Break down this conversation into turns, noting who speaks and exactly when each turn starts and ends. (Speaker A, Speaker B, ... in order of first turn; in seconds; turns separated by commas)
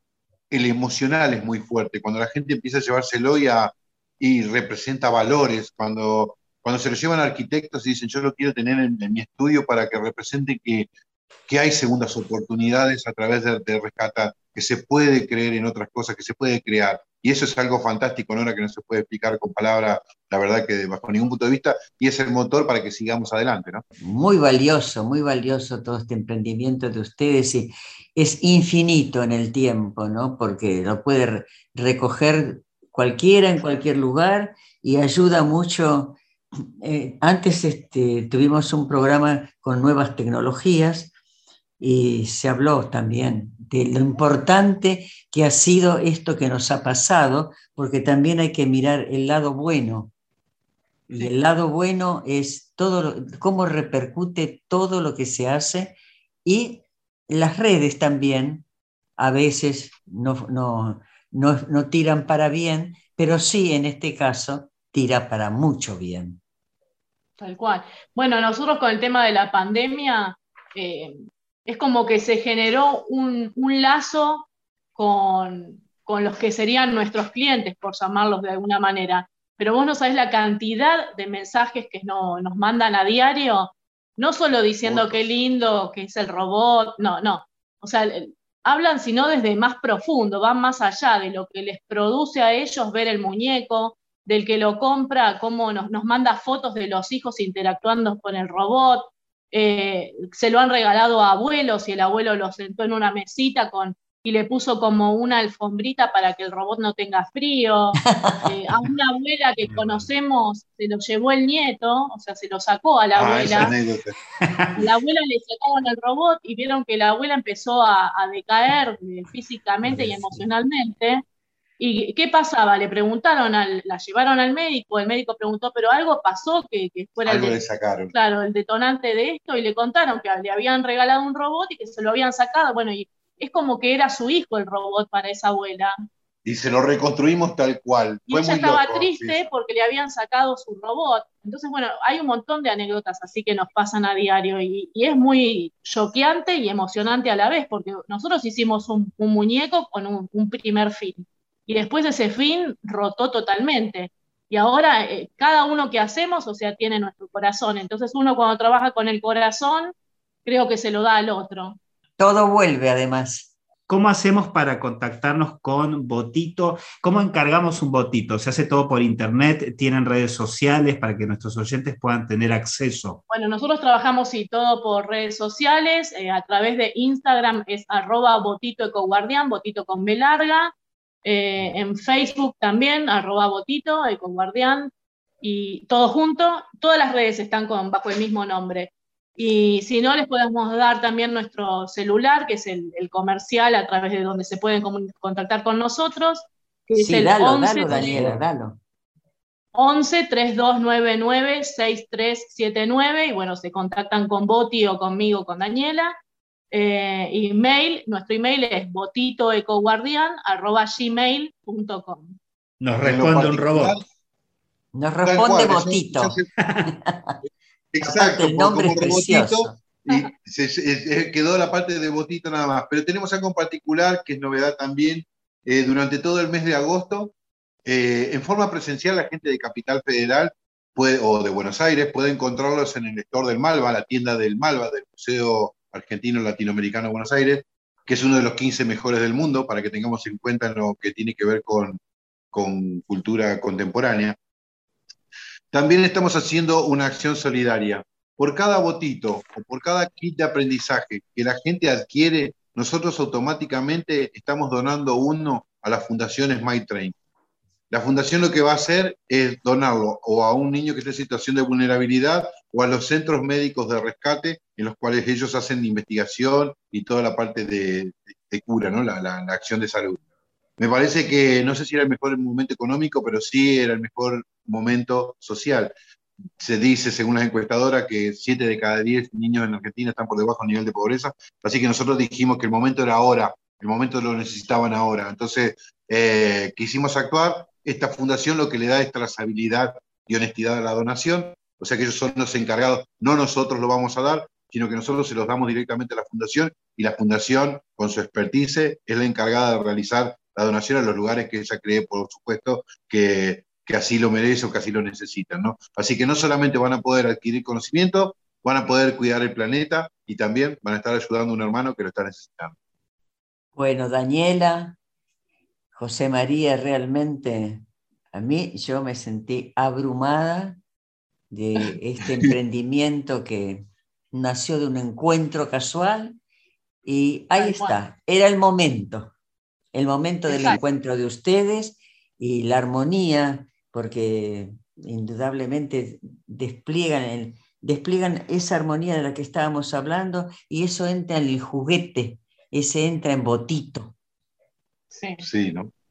Speaker A: 0.5-10.9, Speaker A: 11.5-23.8, Speaker B: 24.0-36.2, Speaker B: 36.8-41.1, Speaker B: 41.8-50.1, Speaker B: 51.2-58.6, Speaker B: 59.2-66.4, Speaker C: 67.4-113.7, Speaker A: 84.8-85.2, Speaker B: 108.0-108.5, Speaker D: 109.7-110.1, Speaker A: 113.2-114.1, Speaker D: 114.5-114.8, Speaker C: 114.8-121.2, Speaker C: 121.8-127.6, Speaker A: 127.2-128.1, Speaker C: 128.1-135.9, Speaker A: 136.4-139.4, Speaker C: 138.3-159.9, Speaker C: 160.4-161.8, Speaker B: 162.2-163.5, Speaker D: 163.9-173.2, Speaker C: 173.3-198.2, Speaker B: 197.0-198.8, Speaker C: 199.7-206.2, Speaker C: 206.7-212.4, Speaker D: 212.8-214.0, Speaker A: 213.0-214.0, Speaker B: 214.9-217.4, Speaker A: 215.2-216.5, Speaker D: 216.6-216.9, Speaker A: 217.9-227.3, Speaker B: 218.0-219.8, Speaker A: 227.8-242.0, Speaker A: 242.5-244.4, Speaker A: 245.7-257.1, Speaker A: 257.9-270.2, Speaker A: 270.8-275.9, Speaker A: 276.6-312.7, Speaker B: 313.7-315.0, Speaker B: 315.9-320.8, Speaker B: 321.5-326.4, Speaker B: 327.0-329.3, Speaker C: 327.6-328.0, Speaker B: 329.9-344.1, Speaker C: 330.5-330.8, Speaker C: 345.1-345.4, Speaker A: 345.4-345.9